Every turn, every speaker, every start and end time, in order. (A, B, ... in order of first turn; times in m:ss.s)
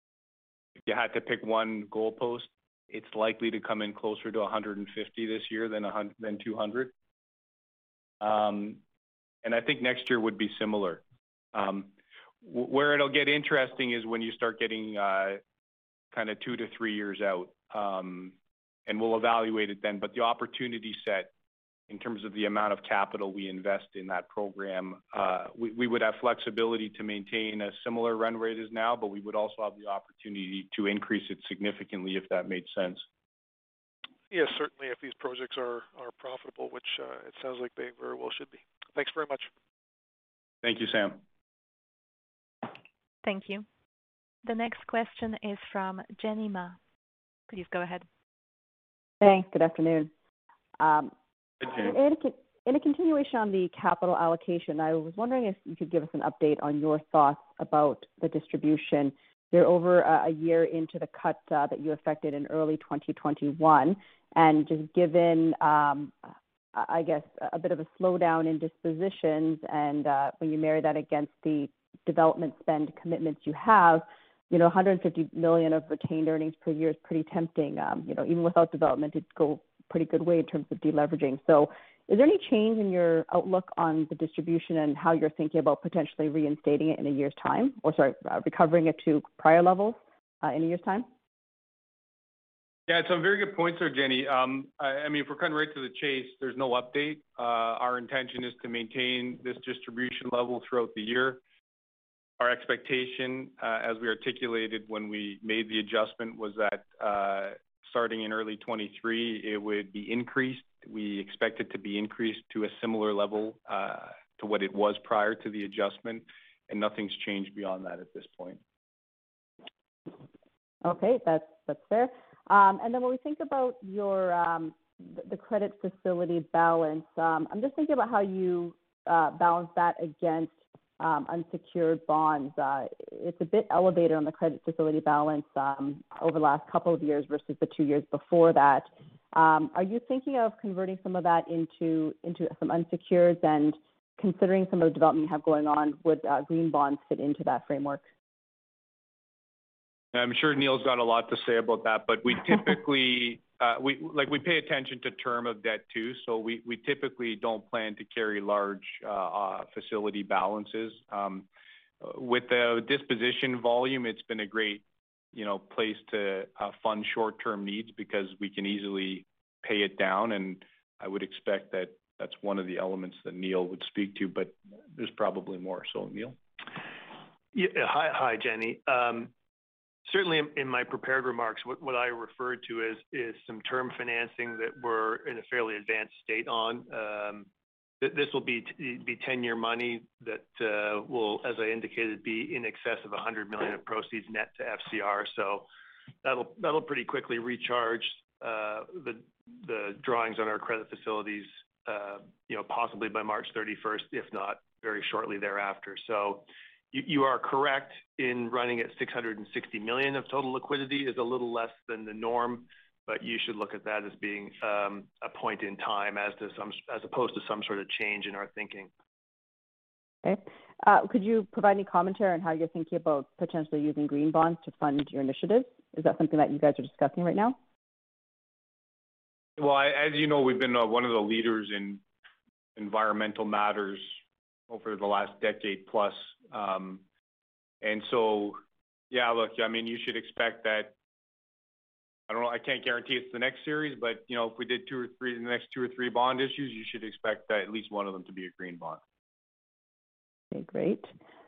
0:00.8-0:06.9 A
0:08.2-0:08.8 A
0:09.4-0:11.0 A
0:11.5-0:11.9 A
0:12.4-0:15.4 A
0:16.1-0:18.3 A
0:18.9-0:21.3 A
0:21.9-0:33.0 A
0:34.3-0:39.5 B
0:40.6-0:41.2 A
0:43.2-0:43.6 C
0:44.4-0:46.8 C
0:47.5-0:48.0 C
0:49.2-0:50.1 D
0:50.8-1:06.2 D
1:06.7-1:31.1 D
1:32.9-1:41.4 A
1:42.4-1:58.6 A
2:00.8-2:28.0 D
2:30.1-2:41.4 A
2:42.0-2:44.8 A
2:45.3-2:56.4 A
2:57.5-2:59.3 E
3:00.0-3:07.5 E
3:08.0-3:15.7 E
3:16.2-3:38.9 E
3:40.2-3:47.6 D
3:49.6-3:52.0 A
3:52.8-3:54.2 A
3:54.7-3:57.0 A
3:57.8-3:58.6 A
3:59.1-4:00.9 A
4:02.3-4:09.0 A
4:10.5-4:11.1 D